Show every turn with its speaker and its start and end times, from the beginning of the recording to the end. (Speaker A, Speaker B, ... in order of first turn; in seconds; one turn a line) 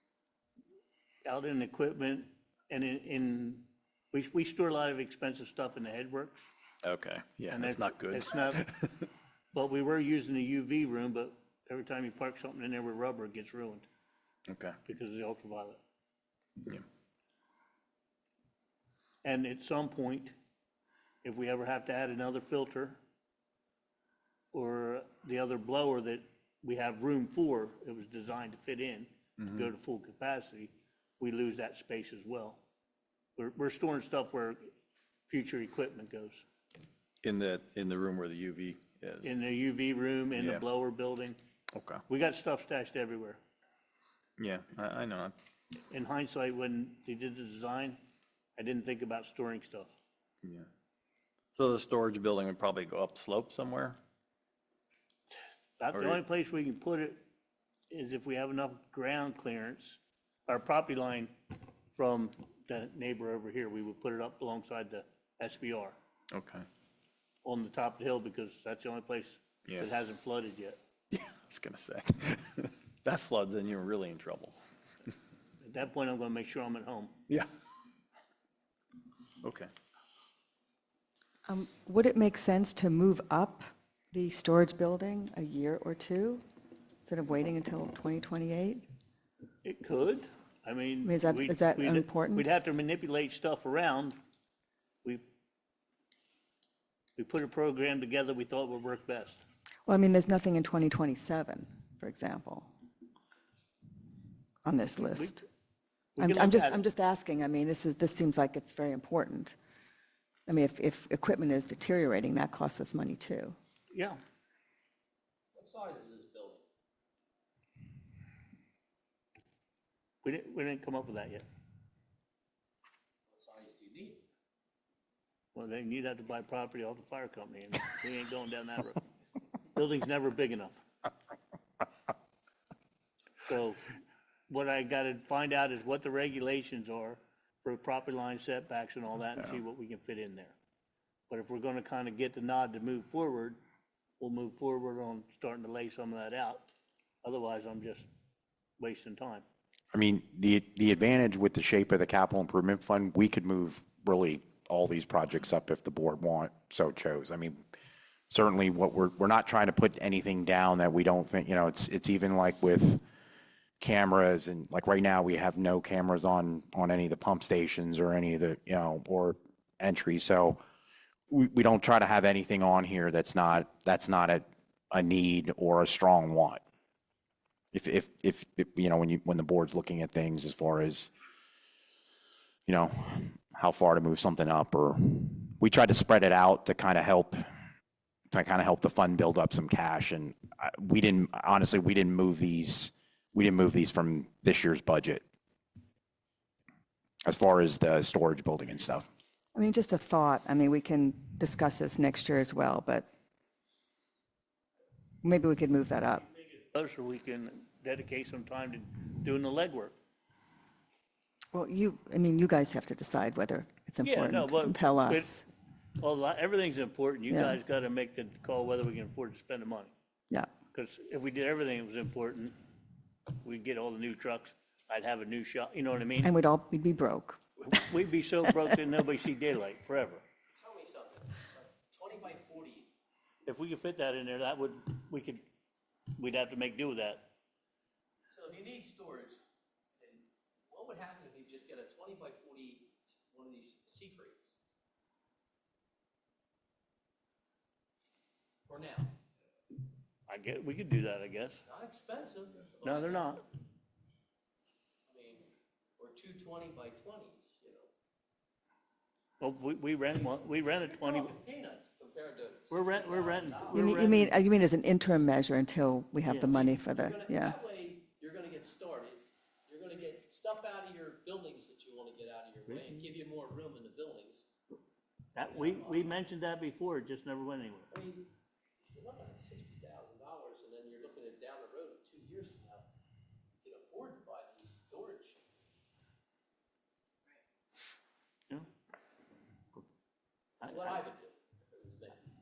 Speaker A: 1.2-6.4
Speaker B: 6.8-9.1
Speaker A: 7.5-8.6
Speaker A: 9.5-13.8
Speaker B: 14.5-14.8
Speaker A: 14.8-15.8
Speaker A: 19.2-20.3
Speaker A: 21.2-23.0
Speaker A: 24.5-32.6
Speaker B: 29.4-29.7
Speaker A: 33.4-34.7
Speaker A: 35.3-36.5
Speaker B: 37.2-39.4
Speaker A: 39.2-41.4
Speaker B: 40.3-40.6
Speaker B: 41.7-42.0
Speaker A: 42.1-43.4
Speaker B: 44.4-45.4
Speaker A: 45.9-48.0
Speaker A: 48.6-50.0
Speaker B: 50.4-50.7
Speaker B: 51.5-54.0
Speaker A: 55.8-57.2
Speaker B: 55.9-56.2
Speaker A: 57.9-61.3
Speaker A: 61.9-66.0
Speaker B: 66.3-66.7
Speaker A: 67.4-70.8
Speaker B: 71.1-74.6
Speaker A: 75.6-77.2
Speaker B: 79.4-79.7
Speaker C: 81.5-86.4
Speaker C: 87.0-88.8
Speaker A: 89.6-94.2
Speaker C: 91.0-92.5
Speaker A: 97.2-99.4
Speaker C: 99.9-102.7
Speaker C: 104.6-105.4
Speaker A: 105.1-105.4
Speaker A: 106.2-106.8
Speaker C: 106.2-109.5
Speaker C: 110.5-113.5
Speaker A: 113.9-114.2
Speaker D: 115.5-116.6
Speaker A: 120.2-121.4
Speaker D: 123.3-124.2
Speaker A: 125.5-129.0
Speaker A: 129.7-130.8
Speaker A: 133.4-133.9
Speaker A: 134.5-140.6
Speaker A: 141.3-143.6
Speaker A: 144.2-146.7
Speaker A: 147.2-148.1
Speaker A: 148.8-149.4
Speaker E: 149.9-157.6
Speaker E: 158.3-163.0
Speaker E: 163.8-170.6
Speaker E: 171.3-176.6
Speaker E: 177.7-181.1
Speaker E: 182.7-187.4
Speaker E: 188.3-195.2
Speaker E: 197.2-199.1
Speaker C: 199.5-203.1
Speaker C: 205.2-206.2
Speaker A: 206.7-209.9
Speaker C: 211.5-215.4
Speaker A: 214.0-215.4
Speaker A: 216.0-219.9
Speaker C: 217.3-217.6
Speaker A: 220.7-222.5
Speaker A: 223.4-226.3
Speaker C: 226.2-227.7
Speaker A: 227.6-230.2
Speaker D: 230.5-232.9
Speaker A: 233.4-235.4
Speaker A: 236.2-237.2
Speaker D: 238.3-239.4
Speaker D: 240.0-244.6
Speaker D: 248.7-249.1
Speaker A: 250.3-251.6
Speaker D: 251.7-253.3
Speaker A: 252.8-253.4
Speaker D: 255.1-257.9
Speaker A: 259.4-261.3
Speaker D: 260.9-263.7
Speaker A: 262.7-264.4
Speaker C: 263.7-267.6
Speaker A: 266.2-266.7
Speaker D: 266.7-274.5
Speaker A: 272.7-273.1
Speaker A: 275.3-277.9
Speaker D: 275.5-276.1
Speaker D: 277.9-278.3
Speaker D: 278.9-282.9
Speaker D: 283.6-285.4
Speaker A: 290.6-291.0
Speaker D: 290.8-292.2